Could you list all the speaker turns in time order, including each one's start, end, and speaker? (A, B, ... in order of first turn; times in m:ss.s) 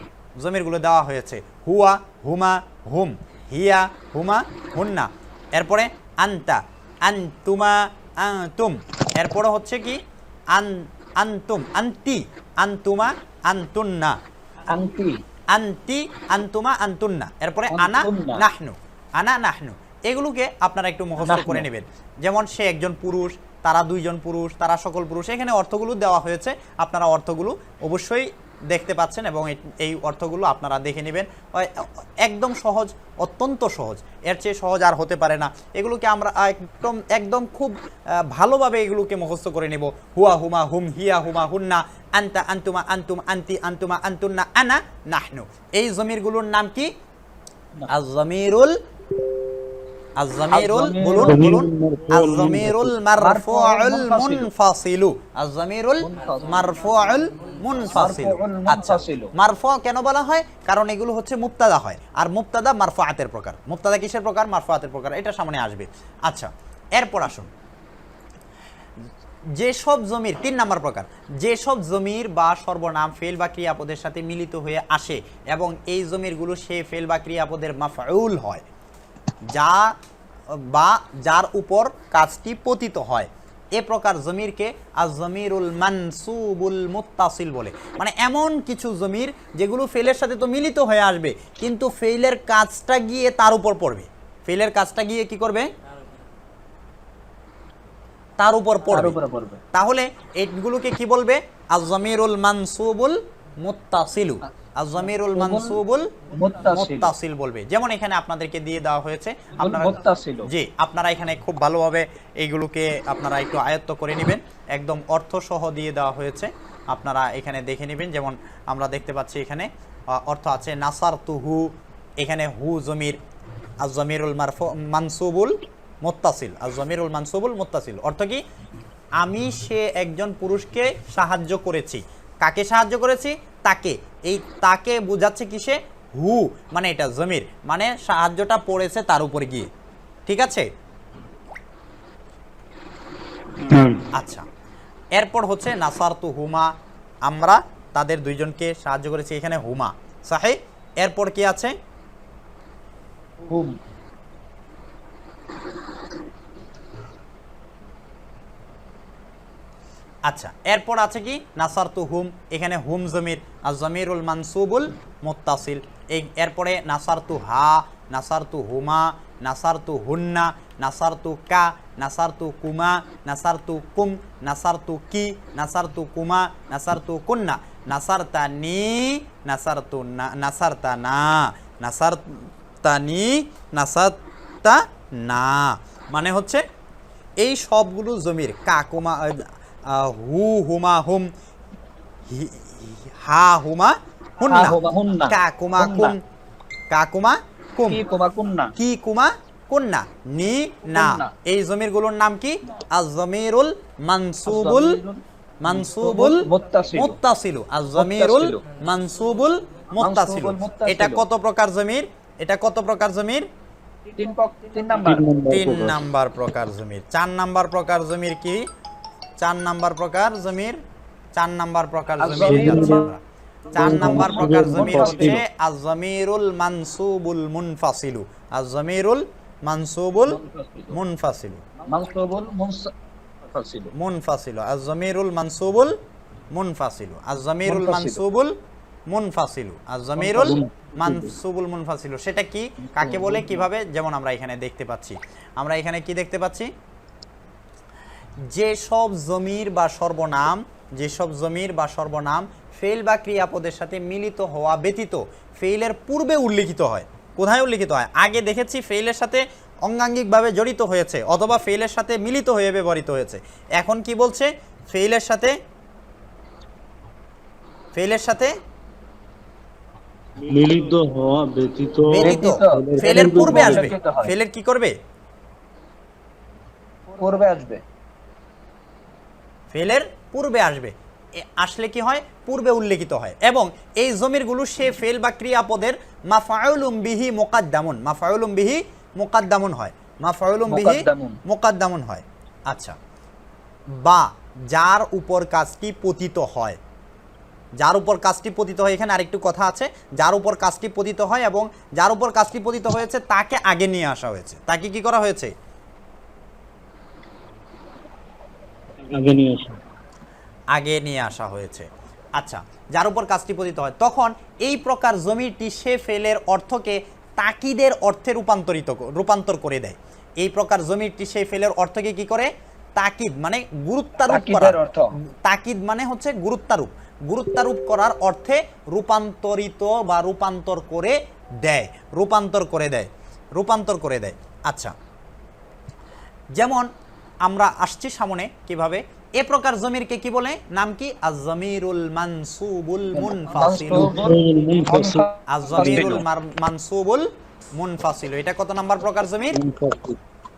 0:00.4-0:10.0 A
0:10.5-0:14.2 A
0:14.7-0:15.2 B
0:15.5-0:46.9 A
0:17.7-0:18.4 B
0:21.2-0:21.6 B
0:47.9-0:48.8 A
0:50.2-1:07.5 A
0:50.5-0:51.6 B
0:51.2-0:53.0 C
0:53.2-0:54.5 B
0:56.0-0:56.8 B
0:57.8-0:59.3 B
1:09.5-1:18.6 A
1:19.5-1:19.9 A
1:20.5-1:35.7 A
1:38.4-1:39.2 A
1:38.9-1:39.6 B
1:39.7-2:03.2 A
1:45.2-1:45.8 B
1:46.3-1:47.1 B
1:49.6-1:50.5 B
2:03.8-2:08.4 A
2:09.2-2:19.7 A
2:20.3-2:20.7 A
2:23.7-2:24.0 C
2:24.1-2:24.5 A
2:25.1-2:26.7 A
2:27.2-2:31.7 A
2:33.4-2:33.8 B
2:40.2-3:06.6 A
3:07.4-3:11.3 A
3:12.3-3:16.2 A
3:14.5-3:16.1 B
3:16.9-3:18.0 A
3:17.9-3:18.7 B
3:18.8-3:25.0 A
3:20.9-3:21.3 B
3:24.4-3:27.2 B
3:25.6-3:33.5 A
3:28.0-3:28.6 B
3:30.0-3:31.2 B
3:34.1-3:35.2 B
3:35.0-3:36.0 C
3:35.5-3:38.6 A
3:39.4-3:40.8 A
3:41.4-3:43.2 A
3:42.2-3:43.1 B
3:42.4-3:43.0 C
3:43.7-3:45.4 B
3:43.7-3:45.4 C
3:43.7-3:50.4 A
3:50.3-3:50.9 B
3:50.9-3:51.6 A
3:51.8-3:52.9 B
3:53.5-3:53.9 B
3:53.9-3:56.0 A
3:56.5-3:58.5 A
3:57.6-3:58.2 B
3:59.1-4:06.7 A
4:00.2-4:01.1 B
4:02.8-4:03.6 B
4:08.5-4:25.6 A
4:27.9-4:28.6 A
4:30.5-4:33.9 C
4:32.1-4:34.9 A
4:32.1-4:34.3 B
4:37.1-4:37.8 B
4:39.7-4:53.0 A
4:50.7-4:51.4 B
4:54.0-4:56.8 A
4:57.8-5:05.5 A
5:09.1-5:09.8 C
5:10.7-5:24.8 A
5:24.3-5:25.1 B
5:25.4-5:34.9 A
5:36.5-5:36.9 A
5:37.4-5:44.2 A
5:43.2-5:46.2 B
5:43.9-5:45.2 C
5:45.5-5:49.6 A
5:45.8-5:46.2 C
5:49.5-5:50.2 C